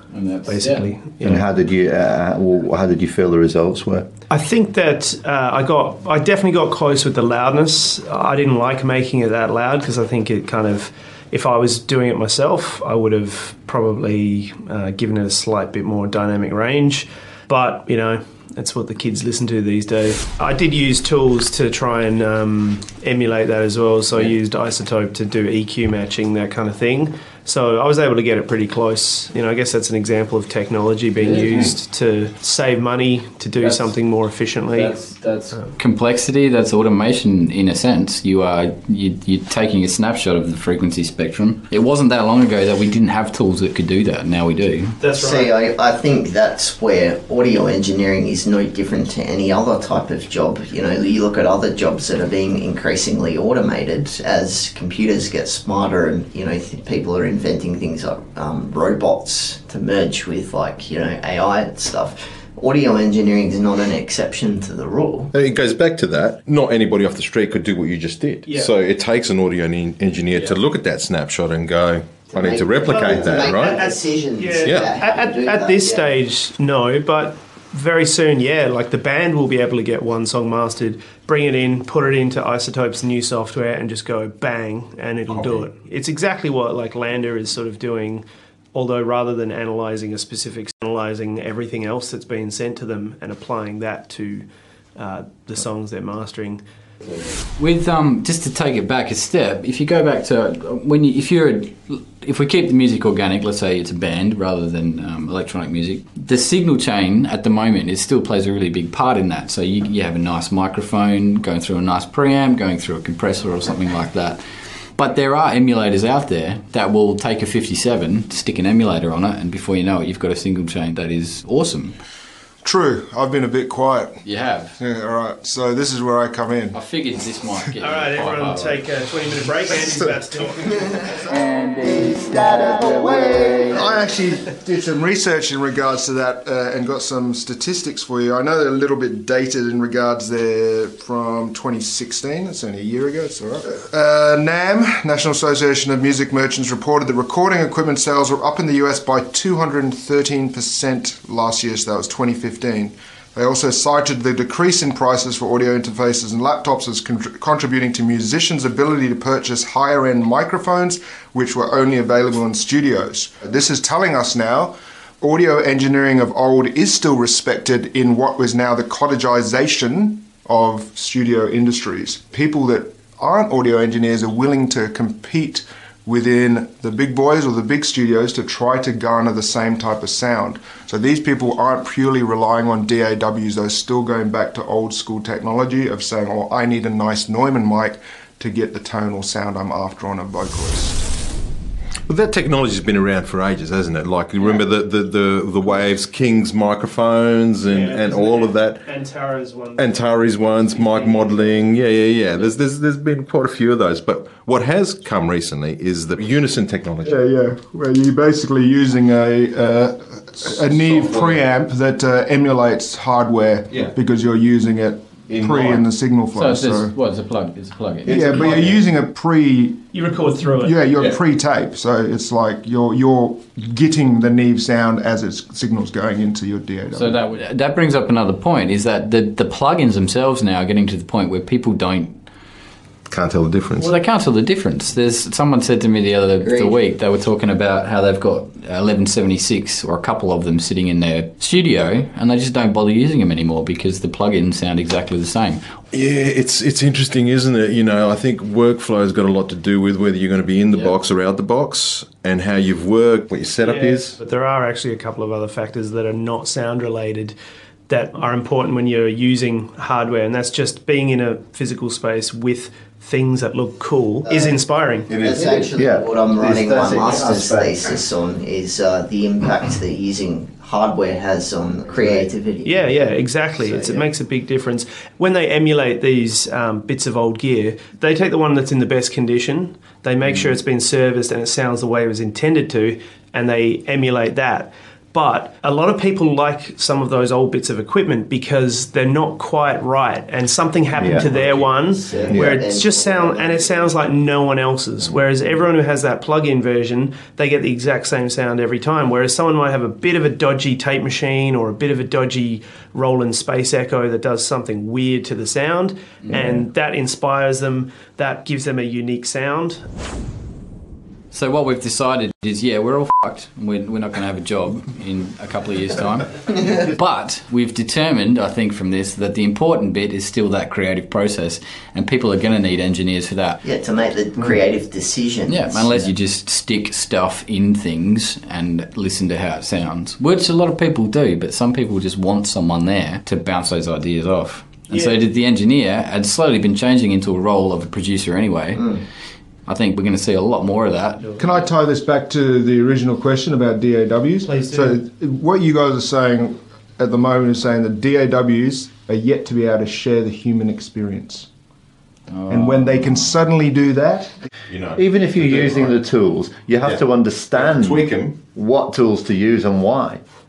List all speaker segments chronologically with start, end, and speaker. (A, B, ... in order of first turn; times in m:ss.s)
0:00.1-0:00.9 A
0:00.4-0:01.4 B
0:01.2-0:04.1 C
0:04.3-0:34.9 B
0:31.2-0:31.6 A
0:33.6-0:33.9 A
0:34.7-0:45.0 A
0:45.0-0:45.5 B
0:45.0-1:05.3 D
1:05.3-1:13.8 E
1:08.4-1:08.7 B
1:12.3-1:16.1 D
1:13.0-1:34.4 B
1:14.6-1:14.9 E
1:25.3-1:25.6 E
1:35.0-1:36.6 B
1:37.6-1:54.4 A
1:55.0-2:02.0 A
2:02.6-2:04.2 F
2:04.2-2:04.7 A
2:04.8-2:06.8 F
2:06.7-2:08.8 A
2:07.8-2:10.8 B
2:09.8-2:10.4 F
2:11.0-2:11.4 F
2:11.2-2:13.9 A
2:12.0-2:13.9 C
2:13.4-3:11.0 F
3:12.1-3:18.8 E
3:17.6-3:21.7 B
3:19.8-3:27.2 E
3:27.0-3:36.9 F
3:30.6-3:31.4 E
3:35.3-3:35.8 E
3:36.3-3:38.8 A
3:38.0-3:39.8 F
3:38.2-3:38.6 E
3:39.9-3:40.8 B
3:40.6-3:47.2 F
3:46.9-3:52.2 A
3:53.1-3:53.9 E
3:53.8-4:05.6 A
3:56.4-3:56.8 D
4:05.9-4:14.2 E
4:13.6-4:17.3 B
4:17.9-4:25.1 B
4:24.3-4:24.6 D
4:25.1-4:25.6 E
4:25.2-4:32.9 D
4:25.4-4:27.8 C
4:32.6-5:09.8 B
4:33.6-4:34.0 D
4:51.0-4:51.3 C
4:51.0-4:53.9 D
4:52.3-4:52.6 C
5:06.2-5:06.5 A
5:11.3-5:23.6 A
5:23.6-5:26.0 D
5:25.5-5:39.0 A
5:39.7-5:41.3 A
5:41.2-5:41.6 B
5:41.4-5:51.5 F
5:44.4-5:45.0 B
5:52.3-5:53.3 A
5:52.5-5:54.3 F
5:54.7-5:56.0 E
5:55.0-6:00.2 C
5:57.5-5:58.4 E